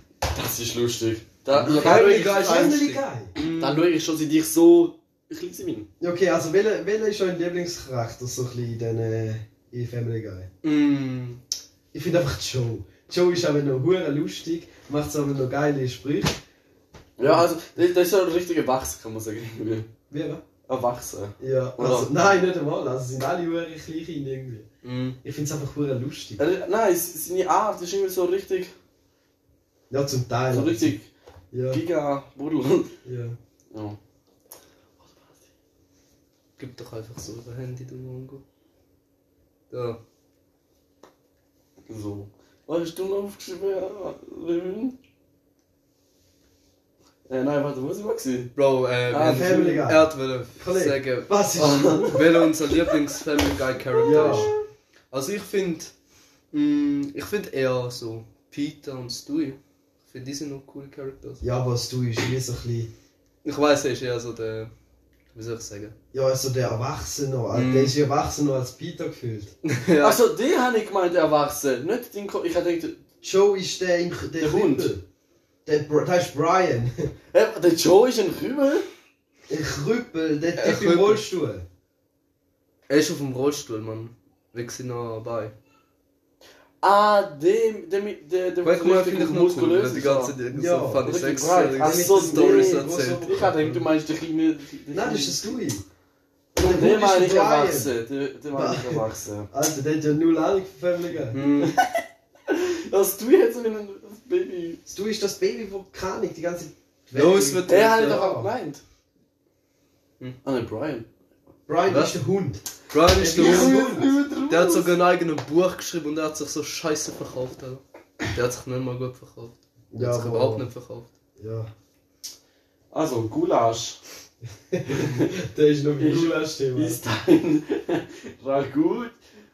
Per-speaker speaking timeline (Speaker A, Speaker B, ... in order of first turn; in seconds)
Speaker A: 0.3-5.9, 17.2-19.9, 20.7-22.1, 26.4-28.7, 30.5-31.1, 31.7-32.9, 33.7-34.0, 35.1-35.3, 41.9-45.0, 47.3-48.5, 51.5-52.3, 54.0-54.6, 70.0-73.0, 74.4-74.9, 77.3-78.9, 86.8-90.3, 91.0-95.6, 96.5-99.5, 101.6-104.8, 107.7-108.8, 110.4-111.1, 113.2-114.9, 122.9-124.0, 124.9-125.3, 126.0-129.2
Speaker B: 1.5-3.9, 10.6-11.4, 24.8-25.2, 36.6-38.4, 39.7-40.0, 48.6-51.3, 52.0-54.5, 55.1-55.9, 56.5-61.4, 63.4-64.7, 65.3-66.0, 67.5-68.0, 69.6-70.2, 80.6-81.3, 82.9-85.5, 88.6-93.3, 101.3-101.8, 107.1-108.3, 111.9-112.2, 112.9-121.1
Speaker C: 1.5-3.3, 6.0-10.5, 11.9-16.4, 20.1-20.4, 21.4-24.7, 25.2-26.4, 29.9-30.9, 31.5-31.8, 33.0-33.4, 49.1-52.2, 54.0-54.5, 61.4-62.9, 66.1-69.5, 73.2-75.0, 75.7-77.1, 79.5-81.7, 90.5-91.2, 91.8-93.9, 94.9-95.8, 96.6-97.9, 98.5-101.5, 104.9-108.5, 111.7-114.2, 119.9-120.7, 121.4-121.7, 124.7-127.0